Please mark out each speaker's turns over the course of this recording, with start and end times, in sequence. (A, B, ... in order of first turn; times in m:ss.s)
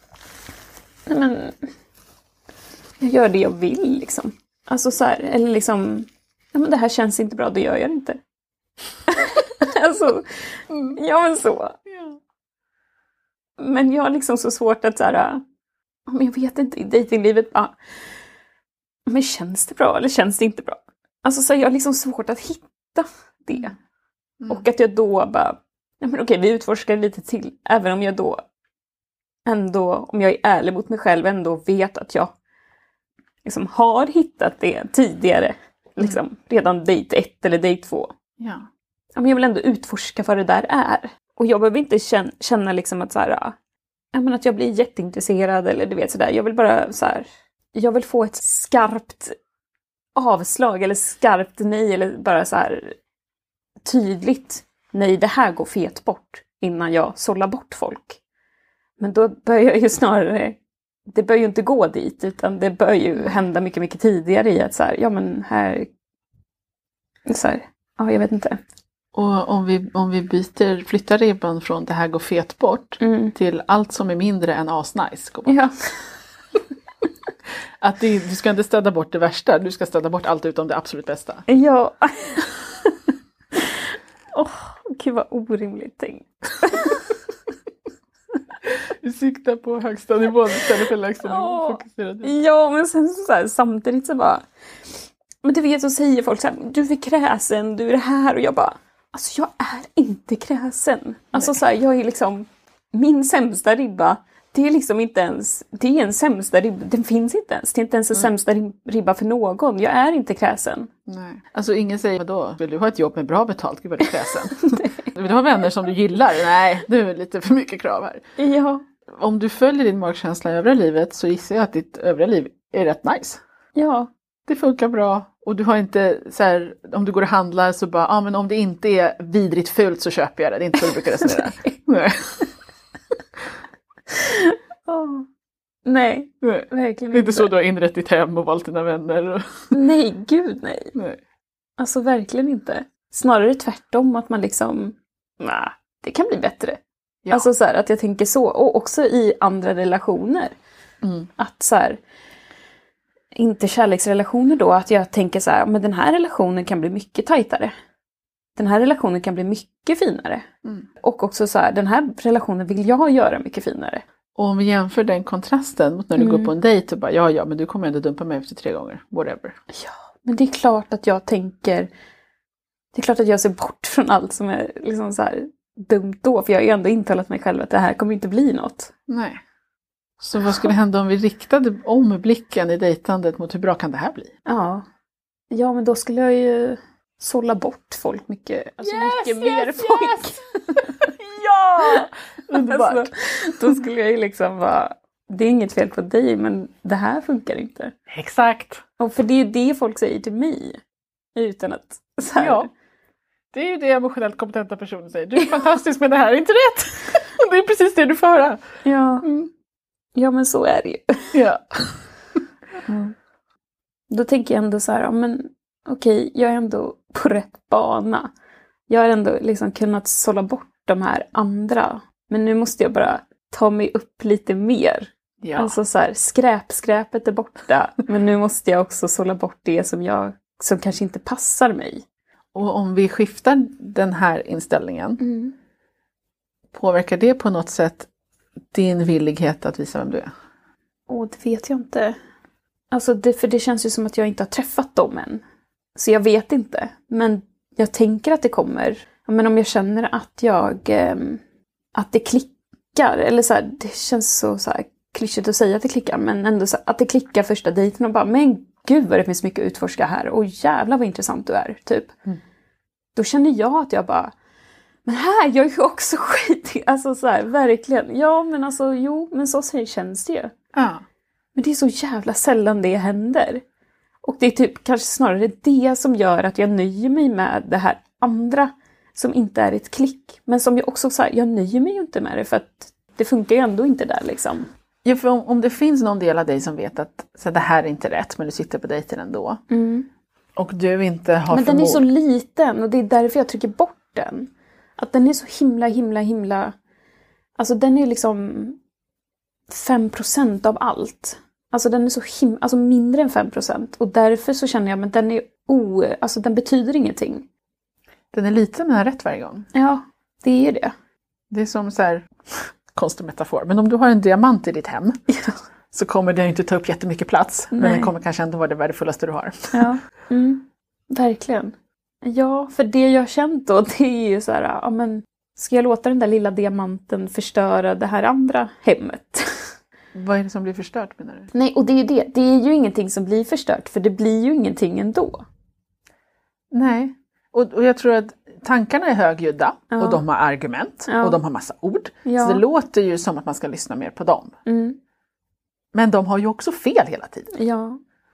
0:01.1-0:01.6 A
0:03.0-0:08.2 A
0:09.1-0:11.8 A
0:10.7-0:11.0 B
0:11.9-0:12.2 B
0:13.6-0:15.4 A
0:16.1-0:17.8 A
0:19.1-0:23.8 A
0:24.5-0:28.4 A
0:29.4-0:32.3 A
0:33.4-0:38.1 A
0:38.4-0:38.7 B
0:39.2-0:43.6 A
0:44.1-0:49.4 A
0:50.2-0:53.0 A
0:53.8-0:58.2 A
0:59.0-1:05.9 A
1:07.3-1:08.6 A
1:09.1-1:15.6 B
1:13.0-1:13.3 A
1:15.4-1:16.2 A
1:17.8-1:21.4 B
1:21.5-1:22.9 A
1:24.3-1:27.1 A
1:28.6-1:32.3 B
1:31.2-1:34.4 A
1:35.4-1:50.9 A
1:51.1-1:58.2 B
1:54.5-1:55.1 A
1:58.4-1:58.8 A
1:59.1-2:03.4 B
2:03.7-2:04.1 A
2:04.4-2:12.5 B
2:11.2-2:11.8 A
2:14.1-2:15.2 A
2:15.9-2:17.5 A
2:16.4-2:19.7 B
2:19.7-2:20.9 A
2:20.9-2:21.2 B
2:21.8-2:30.5 A
2:31.0-2:31.3 B
2:31.4-2:32.0 A
2:33.4-2:37.7 A
2:38.6-2:40.4 A
2:41.0-2:44.0 A
2:44.4-2:49.6 B
2:46.2-2:46.5 A
2:49.7-2:51.9 A
2:52.9-2:58.9 A
2:59.1-2:59.4 B
3:00.2-3:04.3 B
3:04.4-3:04.8 A
3:05.5-3:11.1 A
3:08.8-3:13.8 B
3:11.8-3:17.9 A
3:18.1-3:18.8 B
3:19.0-3:20.8 A
3:21.4-3:22.7 A
3:22.4-3:22.7 B
3:23.5-3:28.6 B
3:28.8-3:29.2 A
3:29.2-3:29.5 B
3:30.1-3:31.3 A
3:31.3-3:32.1 B
3:34.1-3:38.3 A
3:38.9-3:52.0 A
3:45.4-3:45.7 B
3:52.5-3:55.2 B
3:55.2-3:55.5 A
3:56.7-3:58.1 B
3:58.7-4:00.3 B
4:01.1-4:02.2 A
4:02.9-4:05.4 A
4:06.0-4:11.4 A
4:11.9-4:22.1 A
4:23.2-4:24.3 A
4:25.1-4:30.5 A
4:30.7-4:31.0 B
4:31.6-4:33.6 A
4:34.2-4:44.7 A
4:45.0-4:49.6 B
4:49.7-4:50.1 A
4:50.6-4:52.0 B
4:51.5-4:56.7 A
4:57.6-4:58.8 A
4:59.7-5:07.4 A
5:08.3-5:09.7 B
5:09.7-5:10.9 A
5:11.5-5:15.2 B
5:15.3-5:15.6 A
5:15.9-5:19.9 B
5:17.7-5:18.1 A
5:19.7-5:29.8 A
5:30.1-5:31.5 B
5:31.5-5:35.4 A
5:36.7-5:44.6 B
5:39.9-5:40.2 A
5:41.1-5:41.4 A
5:42.2-5:42.6 A
5:44.6-5:45.0 A
5:45.9-5:47.5 B
5:47.5-5:48.0 A